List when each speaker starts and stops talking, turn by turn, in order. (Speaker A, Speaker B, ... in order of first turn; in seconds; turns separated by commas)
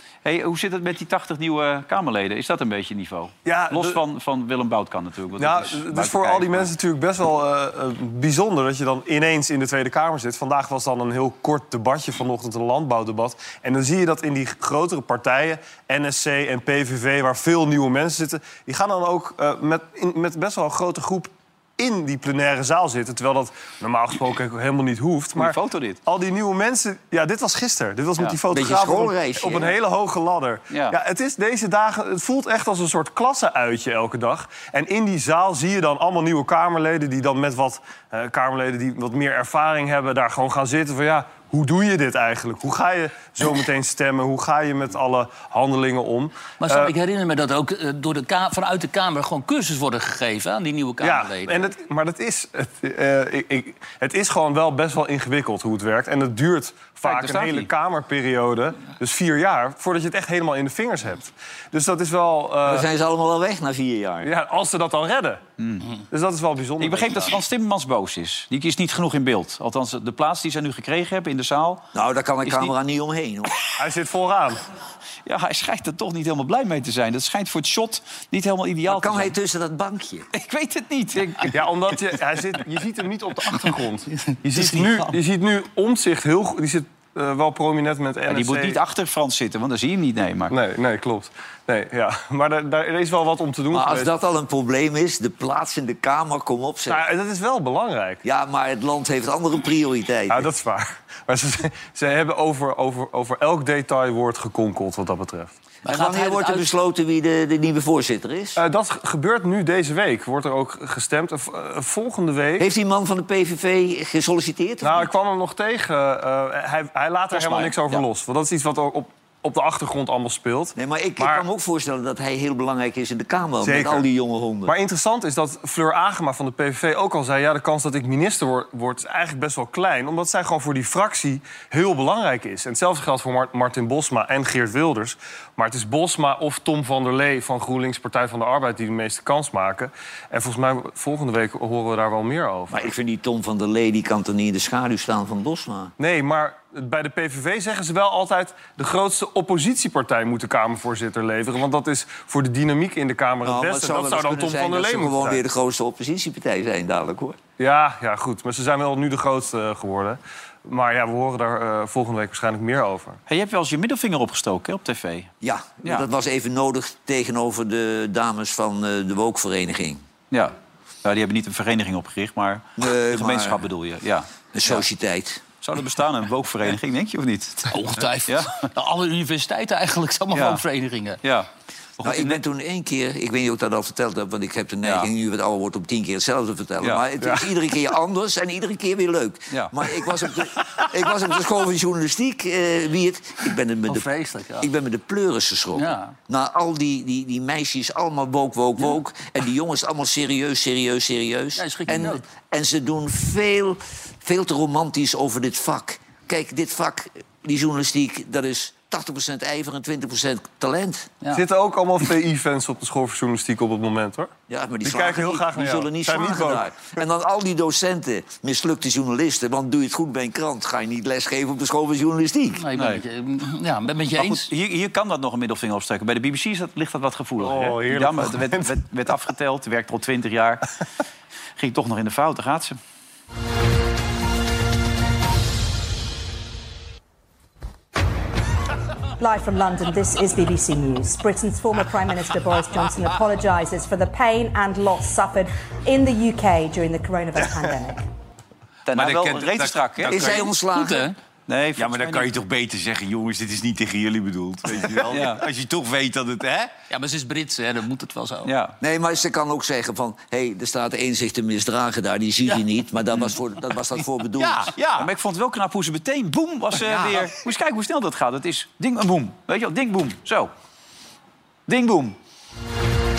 Speaker A: 0.2-6.7, Speaker B: 3.5-4.0, Speaker B: 5.4-46.9, Speaker A: 25.4-26.0, Speaker C: 28.5-29.8, Speaker A: 30.7-30.9, Speaker D: 46.6-51.7, Speaker B: 51.0-62.9, Speaker A: 57.0-57.7, Speaker C: 62.6-64.3, Speaker B: 64.2-65.4, Speaker A: 65.6-65.9, Speaker B: 66.1-67.4, Speaker A: 66.8-71.8, Speaker C: 71.9-73.5, Speaker A: 72.4-72.7, Speaker B: 73.8-74.6, Speaker A: 75.2-79.3, Speaker C: 78.9-80.3, Speaker A: 80.3-82.2, Speaker B: 81.5-88.8, Speaker A: 84.6-85.0, Speaker A: 88.3-90.5, Speaker B: 90.5-94.1, Speaker C: 93.7-97.0, Speaker B: 96.9-98.2, Speaker C: 98.2-100.5, Speaker B: 100.3-105.5, Speaker D: 105.8-106.7, Speaker C: 105.8-108.6, Speaker B: 108.6-112.7, Speaker C: 112.6-115.1, Speaker B: 114.8-121.4, Speaker A: 117.3-118.0, Speaker C: 120.8-124.7, Speaker B: 123.6-124.0, Speaker B: 124.7-142.8, Speaker C: 142.7-145.9, Speaker B: 146.0-155.4, Speaker C: 153.4-157.4, Speaker B: 157.6-163.2, Speaker A: 163.3-165.3, Speaker C: 165.4-170.0, Speaker A: 170.3-174.8, Speaker C: 172.8-173.6, Speaker C: 174.5-175.4, Speaker A: 175.6-177.7, Speaker D: 177.7-181.2, Speaker A: 178.2-178.6, Speaker A: 180.3-180.6, Speaker A: 181.2-182.4, Speaker C: 182.0-194.1, Speaker A: 184.8-185.1, Speaker A: 189.5-190.3, Speaker D: 193.9-194.7, Speaker C: 194.6-211.1, Speaker D: 195.7-196.2, Speaker D: 201.6-202.2, Speaker B: 211.3-214.3, Speaker C: 214.5-222.6, Speaker B: 214.8-216.6, Speaker D: 222.6-224.5, Speaker A: 222.8-223.0, Speaker A: 224.2-230.7, Speaker B: 227.4-228.7, Speaker A: 231.6-232.8, Speaker E: 239.2-248.0, Speaker F: 248.8-250.5, Speaker A: 248.9-250.5, Speaker C: 250.1-251.1, Speaker D: 250.7-251.1, Speaker A: 251.5-252.3, Speaker F: 251.8-256.7, Speaker A: 255.1-255.4, Speaker D: 256.9-258.5, Speaker A: 258.4-258.8, Speaker C: 258.8-264.7, Speaker F: 264.7-265.1, Speaker A: 265.0-270.5, Speaker F: 266.8-267.3, Speaker A: 271.7-272.1